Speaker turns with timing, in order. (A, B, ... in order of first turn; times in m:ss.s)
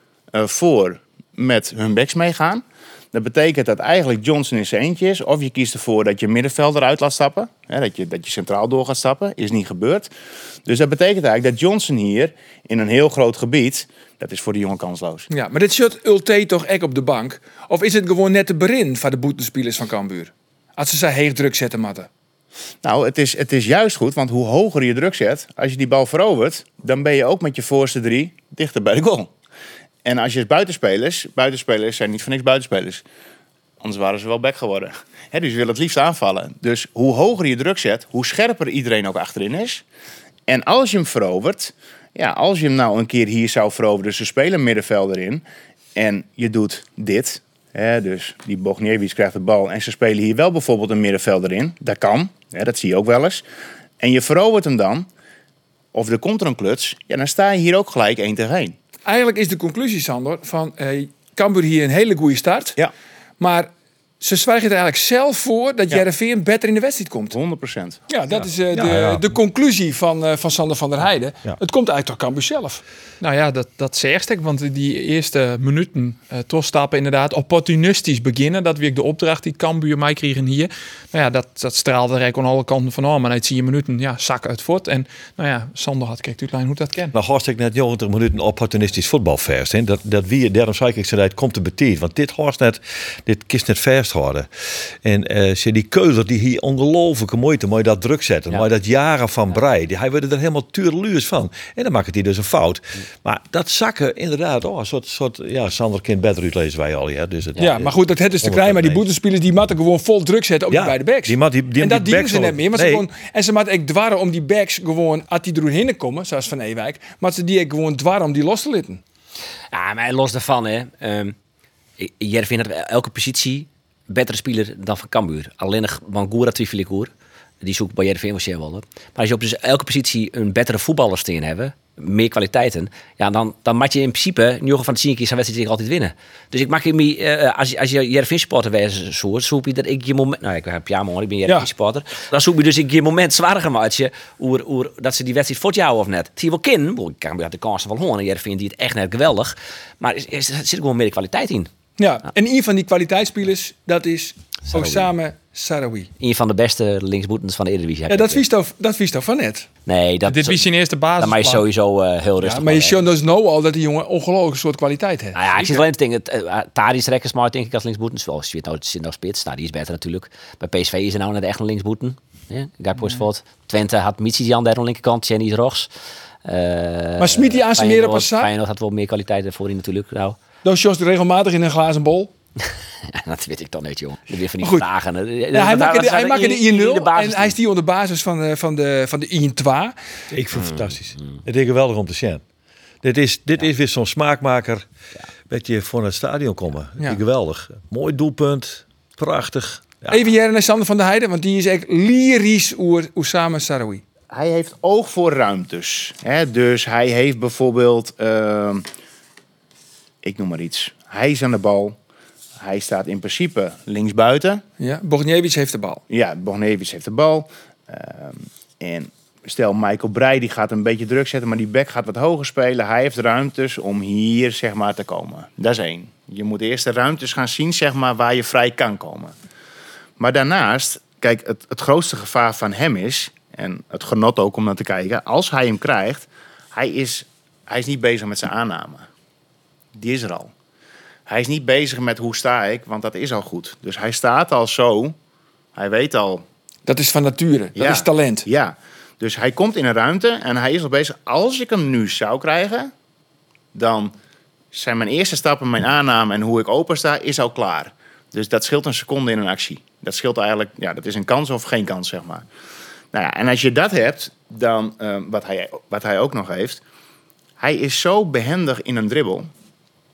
0:00.3-0:10.1 A
0:10.6-0:15.3 A
0:15.3-0:22.1 B
0:22.8-0:29.3 A
0:30.0-0:33.0 A
0:33.8-0:39.8 A
0:40.5-0:45.4 A
0:45.9-0:53.4 A
0:54.0-0:55.1 A
0:55.9-0:58.8 A
0:59.0-1:02.8 B
1:03.4-1:07.4 B
1:07.3-1:08.0 A
1:08.1-1:12.8 B
1:08.7-1:09.3 C
1:13.2-1:27.1 D
1:27.1-1:49.0 C
1:47.6-1:59.0 B
1:50.7-1:53.1 C
1:59.7-2:01.4 E
2:02.0-2:07.1 E
2:07.6-2:31.7 E
2:32.0-2:36.1 B
2:34.7-2:35.1 E
2:36.2-2:38.4 E
2:38.1-2:39.7 B
2:39.8-2:40.6 E
2:40.2-2:41.6 D
2:41.2-2:43.0 E
2:42.4-2:45.8 B
2:45.3-2:55.9 E
2:56.4-3:00.4 E
2:57.2-2:58.5 B
3:00.6-3:02.3 B
3:03.1-3:07.6 E
3:04.6-3:04.8 B
3:05.5-3:10.0 B
3:10.3-3:12.4 C
3:10.5-3:11.4 E
3:13.0-3:14.8 C
3:15.5-3:20.2 C
3:20.1-3:24.0 B
3:24.3-3:28.8 A
3:30.2-3:32.0 A
3:32.6-3:34.6 A
3:34.8-3:36.0 B
3:36.1-3:49.3 A
3:50.2-3:59.1 A
3:59.9-4:00.5 A
4:01.3-4:05.1 A
4:05.7-4:06.4 A
4:06.8-4:08.4 B
4:07.8-4:12.9 A
4:13.7-4:14.1 A
4:14.7-4:22.4 A
4:23.1-4:26.8 A
4:27.6-4:29.5 A